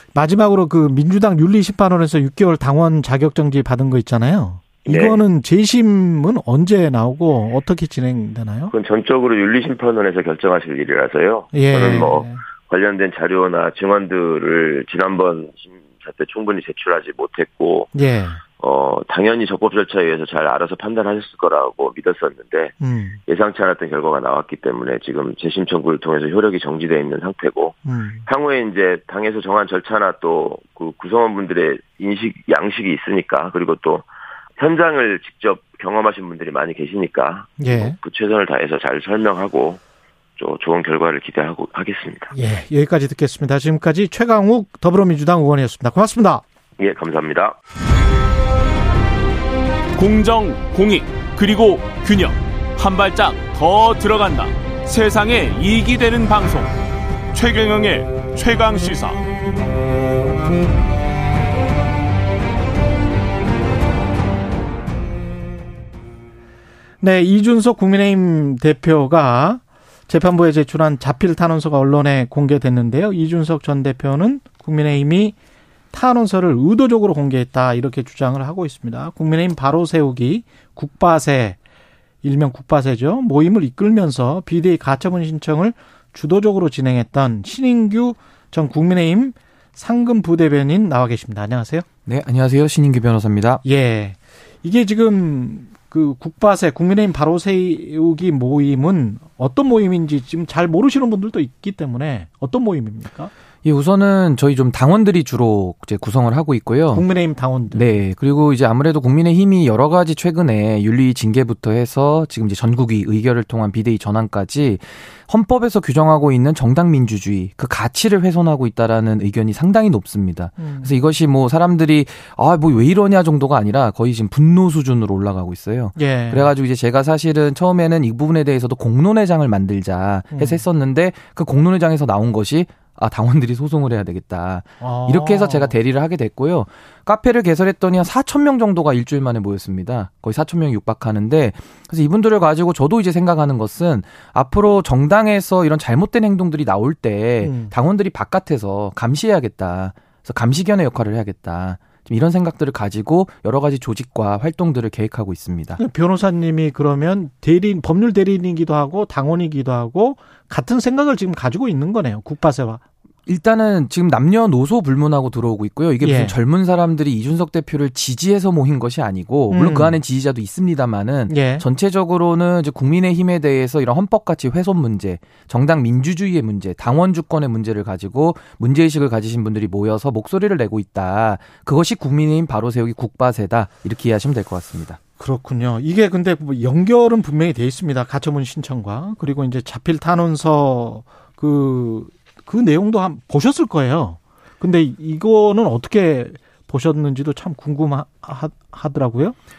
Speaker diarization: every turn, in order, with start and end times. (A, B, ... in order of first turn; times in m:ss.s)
0:00.1-0:08.7 A
0:04.9-0:05.2 B
0:08.7-0:17.9 B
0:11.5-0:12.4 A
0:17.9-0:18.4 A
0:18.6-0:22.7 B
0:22.8-0:23.2 A
0:23.3-0:34.1 B
0:27.8-0:28.3 A
0:34.6-0:39.8 B
0:37.6-0:38.0 A
0:40.4-0:42.3 B
0:42.3-0:46.4 A
0:46.8-0:47.6 B
0:50.0-0:56.7 C
0:57.3-0:59.2 C
1:07.0-1:15.4 A
1:15.9-1:21.6 A
1:22.2-1:31.9 A
1:32.1-1:33.6 D
1:33.6-1:43.3 A
1:43.6-1:47.1 D
1:46.9-1:47.9 A
1:47.7-2:35.8 D
2:00.6-2:00.9 A
2:06.0-2:06.5 A
2:10.3-2:10.6 A
2:14.8-2:15.8 A
2:27.4-2:27.7 A
2:35.8-2:42.8 A
2:43.3-3:05.0 D
2:46.0-2:46.4 A
2:49.5-2:50.0 A
2:51.3-2:51.6 A
3:05.2-3:19.4 A